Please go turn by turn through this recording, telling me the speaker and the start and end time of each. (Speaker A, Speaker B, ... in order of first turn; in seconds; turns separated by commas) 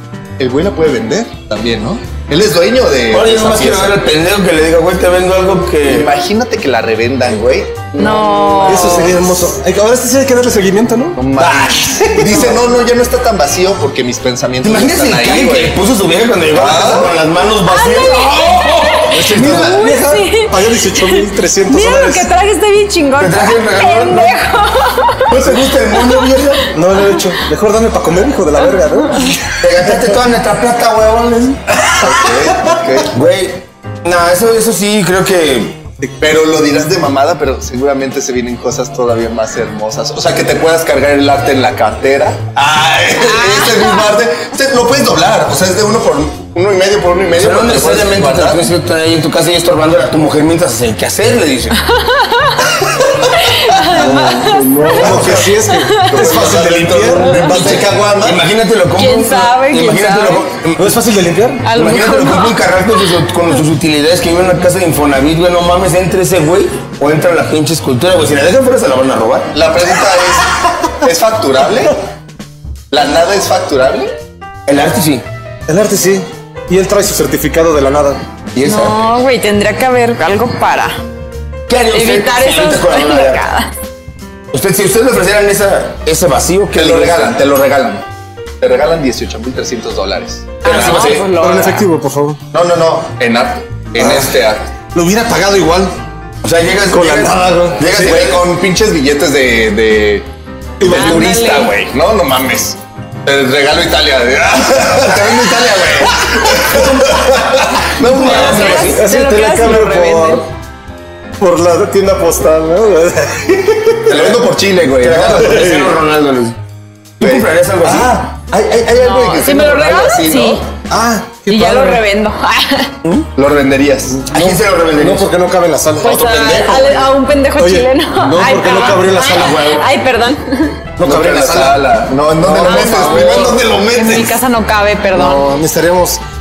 Speaker A: 0.4-4.0, Speaker B: 3.1-6.1, Speaker A: 5.8-9.1, Speaker C: 8.0-9.2, Speaker D: 8.6-11.2, Speaker A: 11.2-15.8, Speaker B: 11.4-12.4, Speaker D: 12.0-12.6, Speaker B: 14.6-19.8, Speaker A: 16.5-17.1, Speaker C: 17.6-18.6, Speaker D: 19.1-22.3, Speaker C: 19.3-25.3, Speaker B: 23.2-24.4, Speaker B: 25.3-26.7, Speaker D: 26.7-29.4, Speaker B: 29.6-31.8, Speaker A: 31.9-33.1, Speaker B: 33.1-35.8, Speaker A: 36.2-48.7, Speaker C: 43.1-44.1, Speaker B: 47.4-51.8, Speaker C: 52.0-52.7, Speaker C: 53.3-55.0, Speaker B: 53.9-55.5, Speaker D: 53.9-57.5, Speaker A: 54.9-55.5, Speaker C: 55.7-56.0, Speaker A: 56.0-58.4, Speaker B: 57.3-61.0, Speaker C: 59.0-60.5, Speaker D: 60.8-61.7, Speaker C: 61.6-62.6, Speaker B: 61.7-69.5, Speaker A: 69.5-72.0, Speaker A: 72.9-74.1, Speaker B: 74.7-75.2, Speaker D: 75.7-78.2, Speaker A: 78.6-79.0, Speaker C: 78.6-81.0, Speaker B: 81.7-83.4, Speaker C: 81.9-83.7, Speaker B: 84.5-87.4, Speaker A: 86.7-88.0, Speaker A: 88.6-91.0, Speaker C: 90.6-91.8, Speaker B: 90.6-91.3, Speaker D: 91.0-92.4, Speaker A: 92.5-94.7, Speaker D: 94.0-94.3, Speaker D: 94.9-95.9, Speaker B: 96.4-98.4, Speaker D: 96.8-98.2, Speaker A: 97.8-100.2, Speaker D: 100.8-101.3, Speaker C: 100.8-101.7, Speaker B: 100.8-101.9, Speaker A: 100.8-108.9, Speaker B: 104.8-109.1, Speaker C: 108.1-110.4, Speaker D: 108.7-110.5, Speaker D: 111.4-114.4, Speaker A: 114.1-115.7, Speaker B: 115.0-116.5, Speaker D: 115.2-115.9, Speaker B: 117.2-118.2, Speaker A: 117.2-120.6, Speaker C: 119.0-120.6, Speaker D: 120.9-122.0, Speaker C: 121.5-122.9, Speaker A: 123.3-124.3, Speaker D: 124.2-126.2, Speaker B: 124.3-125.3, Speaker C: 126.0-130.8, Speaker A: 126.0-127.1, Speaker D: 127.6-129.8, Speaker D: 131.0-131.9, Speaker A: 131.0-134.3, Speaker D: 132.4-133.4, Speaker C: 132.6-135.5, Speaker D: 135.1-136.2